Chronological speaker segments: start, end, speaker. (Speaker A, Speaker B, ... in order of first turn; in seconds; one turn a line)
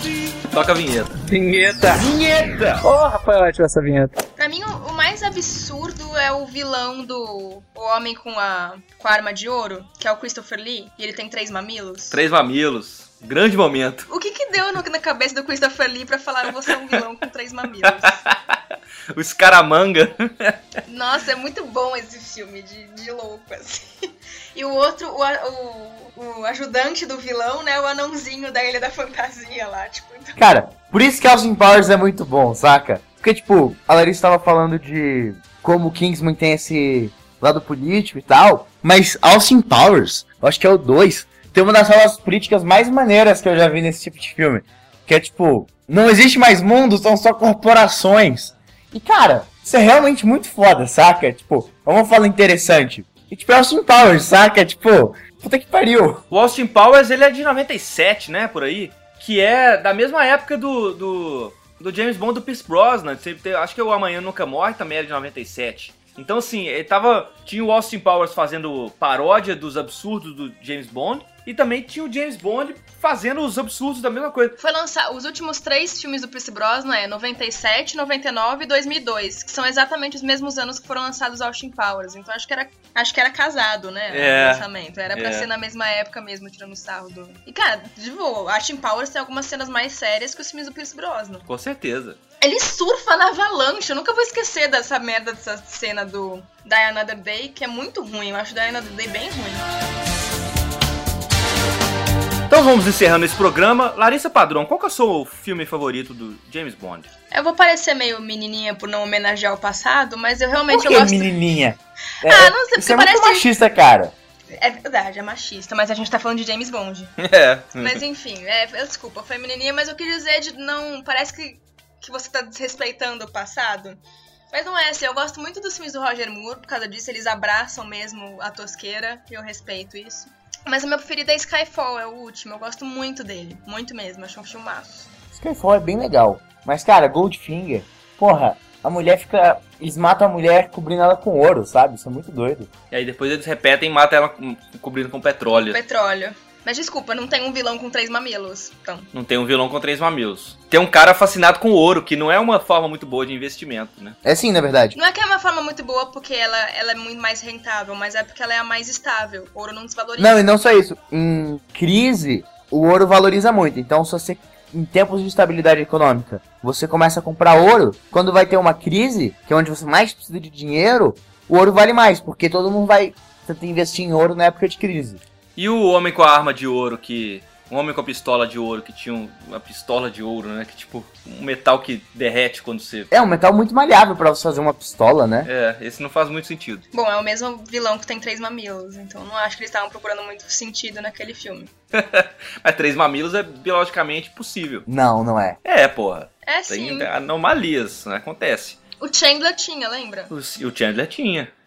Speaker A: 0.5-1.1
Speaker B: 1.2-2.0
Speaker C: 1.9-2.8
Speaker B: 2.8-4.2
Speaker D: 4.4-12.2
Speaker A: 12.1-14.1
Speaker D: 14.1-18.2
Speaker A: 17.8-18.6
Speaker A: 19.1-20.6
Speaker D: 20.9-30.4
Speaker C: 30.4-56.2
Speaker A: 56.3-74.6
Speaker D: 74.6-91.4
Speaker A: 84.1-85.5
Speaker A: 91.5-92.2
Speaker D: 92.4-99.7
Speaker A: 102.5-107.1
Speaker D: 107.3-111.3
Speaker C: 110.7-114.1
Speaker D: 112.2-113.5
Speaker D: 114.5-117.2
Speaker A: 117.2-118.0
Speaker D: 117.8-124.0
Speaker D: 124.5-135.1
Speaker C: 135.3-142.7
Speaker A: 142.9-145.8
Speaker D: 145.5-149.1
Speaker A: 149.1-154.2
Speaker C: 154.2-154.9
Speaker D: 154.9-160.4
Speaker C: 160.2-175.2
Speaker A: 175.6-183.1
Speaker C: 183.1-185.5
Speaker A: 185.4-186.8
Speaker D: 186.9-191.7
Speaker A: 191.9-194.8
Speaker C: 194.9-195.6
Speaker A: 195.6-198.8
Speaker D: 196.4-197.1
Speaker D: 199.0-200.3
Speaker A: 200.3-201.5